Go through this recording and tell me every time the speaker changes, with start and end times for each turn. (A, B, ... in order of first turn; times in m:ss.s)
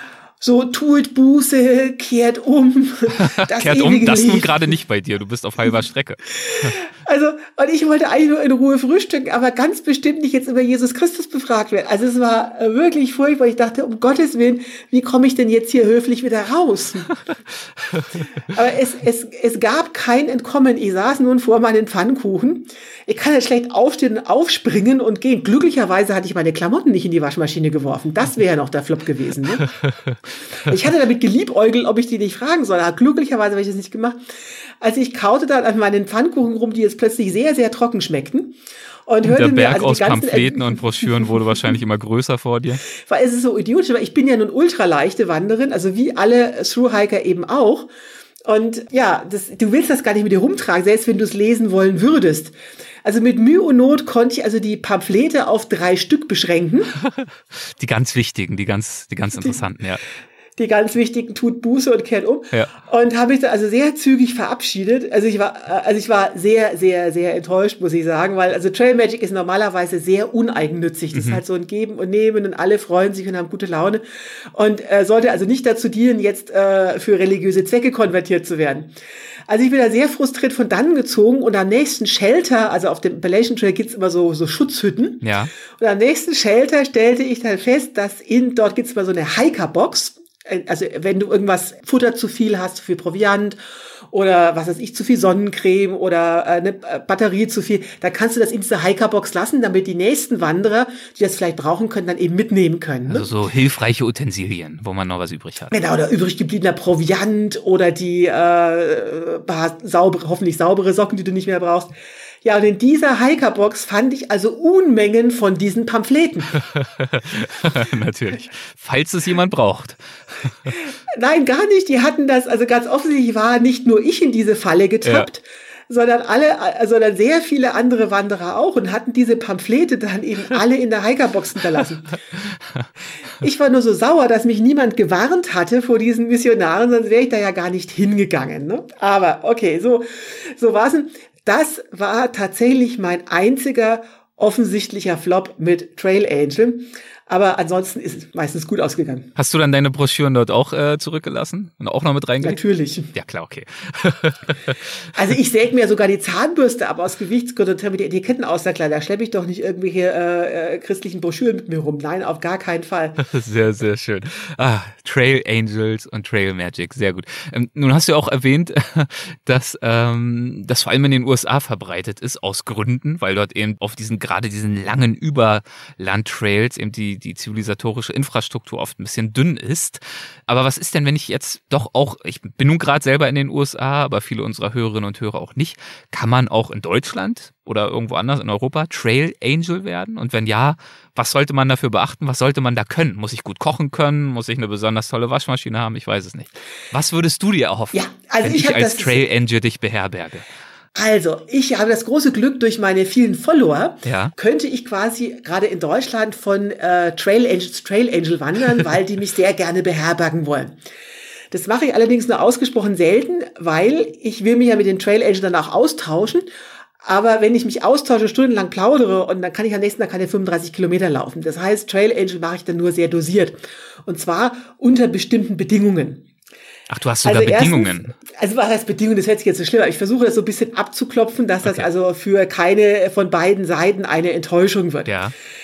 0:00.4-0:04.7 A
0:03.2-0:06.8 B
0:06.4-0:17.1 A
0:17.9-0:18.2 B
0:18.5-0:29.7 A
0:29.8-0:30.2 B
0:30.6-0:34.2 A
0:34.8-0:41.3 A
0:39.2-0:42.8 B
0:43.0-0:47.9 A
0:48.4-0:56.9 A
0:57.8-1:00.0 B
0:59.4-0:59.6 A
1:00.6-1:18.9 A
1:11.1-1:11.4 B
1:19.5-1:25.2 A
1:25.2-1:25.5 B
1:25.7-1:33.6 A
1:34.1-1:43.3 A
1:43.1-1:45.8 B
1:45.7-1:56.5 A
1:56.7-2:00.7 B
2:00.7-2:12.2 A
2:05.0-2:05.3 B
2:13.4-2:29.3 A
2:29.4-2:32.6 B
2:32.4-2:33.1 A
2:33.1-2:34.8 B
2:35.1-2:43.2 A
2:43.2-3:20.4 B
3:17.9-3:19.2 A
3:21.0-3:30.8 A
3:24.0-3:24.3 B
3:31.5-3:36.4 A
3:37.0-3:46.2 A
3:46.9-3:48.1 B
3:47.2-3:55.1 A
3:51.6-3:51.9 B
3:55.0-3:55.3 B